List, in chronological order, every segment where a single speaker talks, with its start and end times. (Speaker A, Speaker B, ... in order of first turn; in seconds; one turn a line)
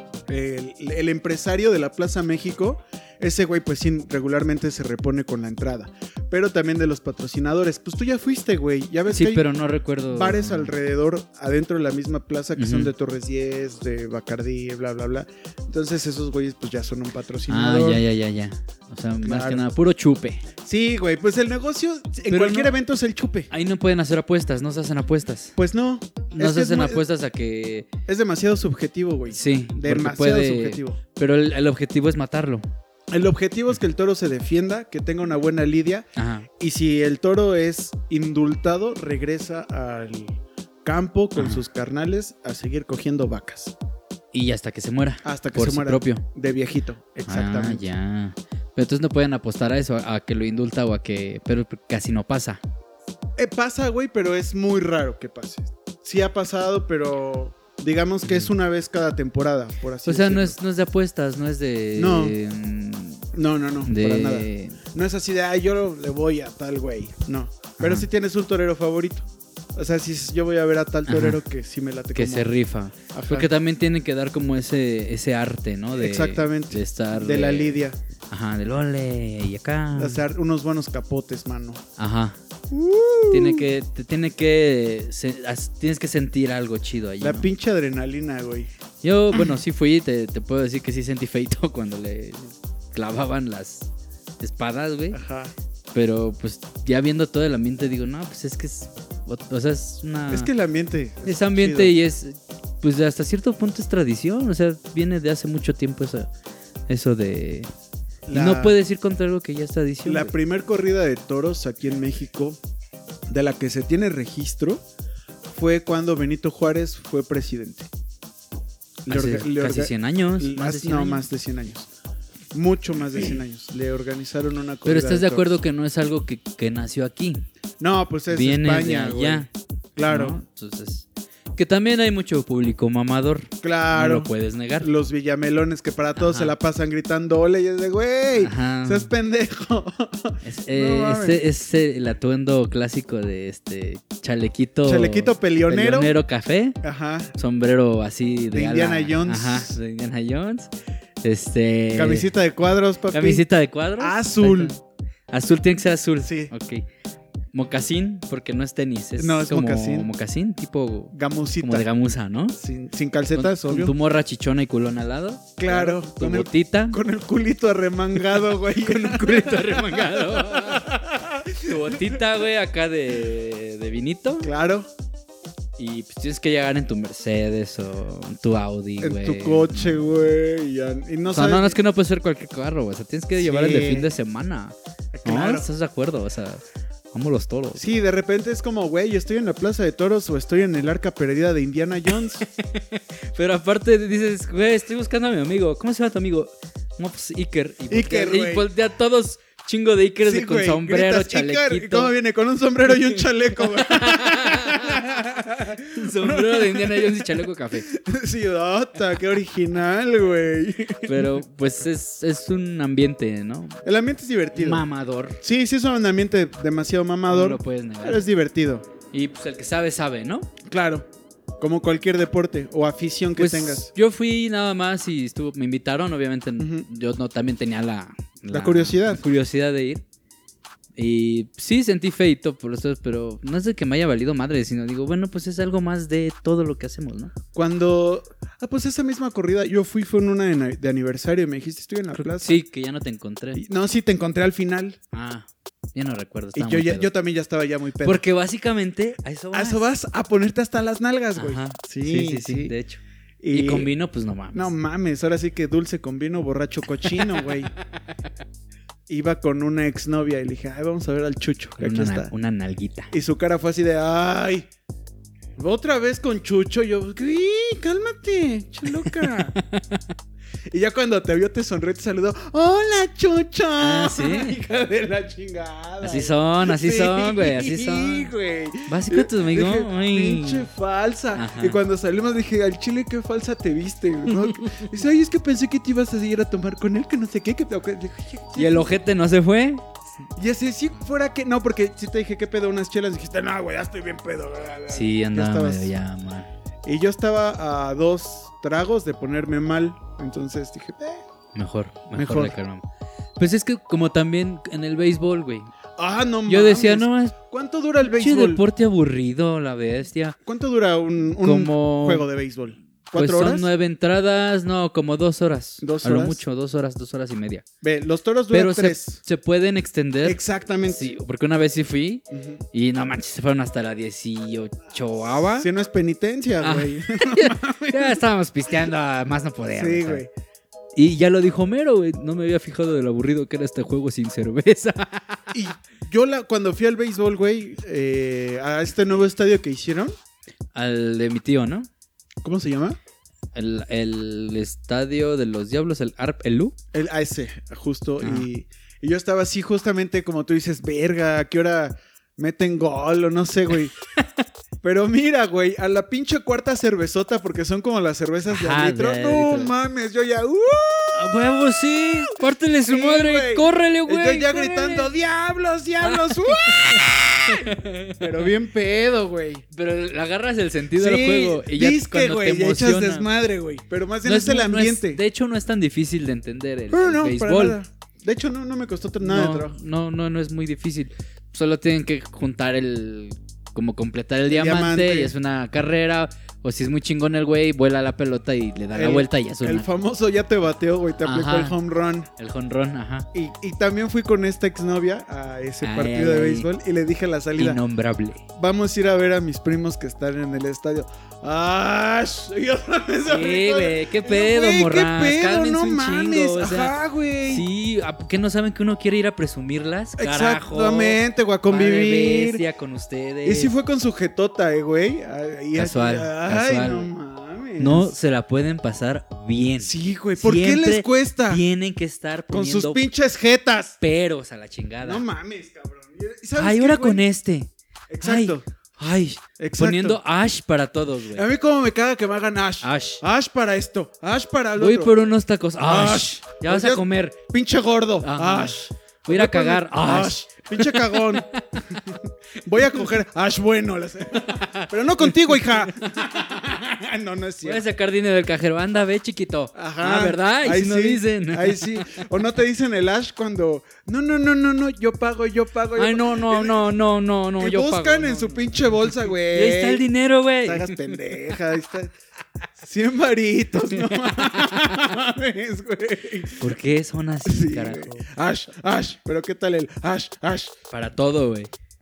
Speaker A: 0.3-9.5
Speaker B: 9.1-10.7
Speaker A: 10.1-18.0
Speaker B: 12.6-12.9
Speaker B: 17.5-20.4
Speaker A: 19.2-19.6
Speaker A: 20.6-23.5
Speaker B: 22.3-22.7
Speaker B: 23.5-25.6
Speaker A: 25.6-27.0
Speaker B: 26.4-27.9
Speaker A: 28.1-31.0
Speaker B: 29.3-32.6
Speaker A: 33.1-36.1
Speaker B: 36.1-36.5
Speaker A: 36.6-43.7
Speaker B: 41.3-41.6
Speaker B: 44.3-46.2
Speaker A: 45.2-47.8
Speaker B: 47.3-52.6
Speaker A: 53.4-60.5
Speaker B: 58.2-58.5
Speaker B: 60.0-63.2
Speaker A: 61.9-62.4
Speaker A: 63.3-72.5
Speaker B: 63.9-64.8
Speaker B: 67.8-68.0
Speaker B: 71.1-71.4
Speaker B: 72.1-80.2
Speaker A: 73.1-73.5
Speaker A: 75.9-78.0
Speaker A: 80.0-81.8
Speaker B: 82.0-82.4
Speaker A: 82.7-83.7
Speaker B: 83.3-87.5
Speaker A: 87.2-88.7
Speaker B: 89.0-93.9
Speaker B: 94.4-95.2
Speaker A: 95.1-95.5
Speaker B: 95.9-100.5
Speaker A: 100.3-101.9
Speaker B: 101.2-106.3
Speaker B: 106.9-107.7
Speaker A: 108.3-108.8
Speaker B: 108.3-110.3
Speaker A: 110.0-112.6
Speaker A: 113.3-114.8
Speaker A: 115.5-117.9
Speaker A: 119.0-121.9
Speaker B: 119.1-121.2
Speaker A: 122.5-125.5
Speaker B: 124.8-127.4
Speaker A: 127.8-130.4
Speaker B: 128.3-129.5
Speaker B: 130.0-131.1
Speaker B: 131.6-134.9
Speaker A: 133.6-141.4
Speaker B: 136.2-136.5
Speaker B: 138.3-139.1
Speaker B: 140.4-146.8
Speaker A: 144.8-146.1
Speaker A: 146.8-147.3
Speaker B: 147.3-150.7
Speaker A: 148.5-149.8
Speaker B: 151.2-152.3
Speaker A: 151.9-153.4
Speaker B: 153.1-154.8
Speaker A: 154.0-154.7
Speaker B: 155.3-156.8
Speaker A: 156.2-156.5
Speaker B: 157.5-162.6
Speaker A: 159.2-160.1
Speaker A: 161.1-161.9
Speaker A: 162.5-163.9
Speaker B: 163.3-167.0
Speaker A: 165.6-172.2
Speaker B: 168.3-170.9
Speaker B: 171.5-174.5
Speaker A: 174.4-174.9
Speaker B: 175.8-180.0
Speaker A: 179.0-181.8
Speaker B: 181.3-187.9
Speaker A: 183.4-184.1
Speaker A: 185.1-185.7
Speaker A: 187.8-192.4
Speaker B: 192.4-202.1
Speaker A: 197.9-198.7
Speaker A: 200.2-211.4
Speaker B: 202.9-205.1
Speaker B: 205.9-207.9
Speaker B: 211.0-213.8
Speaker A: 213.8-214.8
Speaker B: 214.6-215.4
Speaker A: 215.4-218.8
Speaker B: 217.3-218.2
Speaker B: 219.1-220.5
Speaker A: 220.6-221.1
Speaker A: 221.6-223.9
Speaker B: 223.4-230.0
Speaker A: 226.6-226.8
Speaker A: 228.5-229.2
Speaker B: 231.0-237.3
Speaker A: 237.5-242.6
Speaker B: 242.1-243.6
Speaker A: 243.5-245.0
Speaker B: 245.1-247.1
Speaker A: 246.5-248.2
Speaker B: 248.0-249.8
Speaker A: 249.5-252.7
Speaker B: 251.3-254.7
Speaker A: 253.4-253.9
Speaker A: 254.5-257.7
Speaker B: 257.1-257.5
Speaker A: 259.1-262.3
Speaker B: 261.8-263.1
Speaker A: 263.1-264.7
Speaker A: 265.6-269.5
Speaker B: 269.0-270.1
Speaker A: 270.7-288.9
Speaker B: 273.8-274.6
Speaker B: 276.0-278.3
Speaker B: 278.9-280.7
Speaker B: 281.3-281.8
Speaker B: 284.5-284.8
Speaker B: 288.5-289.8
Speaker A: 290.4-295.9
Speaker B: 294.9-296.5
Speaker A: 296.8-301.2
Speaker B: 301.5-302.8
Speaker A: 302.1-302.5
Speaker B: 303.4-305.7
Speaker A: 306.0-308.6
Speaker B: 306.5-307.3
Speaker B: 308.0-310.4
Speaker A: 310.4-313.7
Speaker B: 311.4-312.2
Speaker B: 313.1-317.6
Speaker A: 315.8-316.4
Speaker A: 317.8-319.2
Speaker B: 318.5-325.7
Speaker A: 320.2-321.1
Speaker A: 322.3-322.6
Speaker A: 325.5-328.2
Speaker B: 326.6-330.2
Speaker A: 329.7-330.3
Speaker B: 330.9-335.5
Speaker A: 335.5-340.1
Speaker B: 340.7-341.9
Speaker A: 342.4-343.0
Speaker B: 343.5-346.7
Speaker A: 346.9-353.9
Speaker B: 348.2-348.5
Speaker B: 354.1-354.4
Speaker A: 354.8-361.6
Speaker B: 358.5-359.7
Speaker B: 361.1-365.1
Speaker A: 362.9-369.6
Speaker B: 366.0-368.5
Speaker B: 369.7-373.3
Speaker A: 370.9-375.2
Speaker B: 374.2-377.8
Speaker A: 376.9-379.8
Speaker B: 379.2-389.9
Speaker A: 384.5-385.3
Speaker A: 388.9-392.3
Speaker B: 391.2-391.7
Speaker B: 392.4-393.3
Speaker A: 393.3-397.8
Speaker B: 395.8-396.7
Speaker B: 397.6-398.4
Speaker A: 398.5-407.6
Speaker B: 403.2-413.7
Speaker A: 410.2-412.6
Speaker A: 413.4-418.1
Speaker B: 415.7-417.1
Speaker B: 417.8-423.0
Speaker A: 419.8-421.6
Speaker A: 422.5-424.0
Speaker B: 424.0-425.2
Speaker A: 425.0-427.2
Speaker B: 426.6-427.7
Speaker A: 428.1-428.6
Speaker B: 428.2-431.5
Speaker A: 429.6-430.2
Speaker A: 431.3-435.3
Speaker B: 432.8-433.2
Speaker B: 434.8-437.4
Speaker A: 435.8-447.8
Speaker B: 438.2-442.0
Speaker B: 444.3-446.2
Speaker B: 447.6-452.2
Speaker A: 449.7-456.9
Speaker B: 455.9-461.6
Speaker A: 457.6-460.0
Speaker A: 460.6-462.1
Speaker A: 462.8-466.6
Speaker B: 464.1-464.9
Speaker B: 466.6-468.2
Speaker A: 467.4-470.7
Speaker B: 470.9-471.7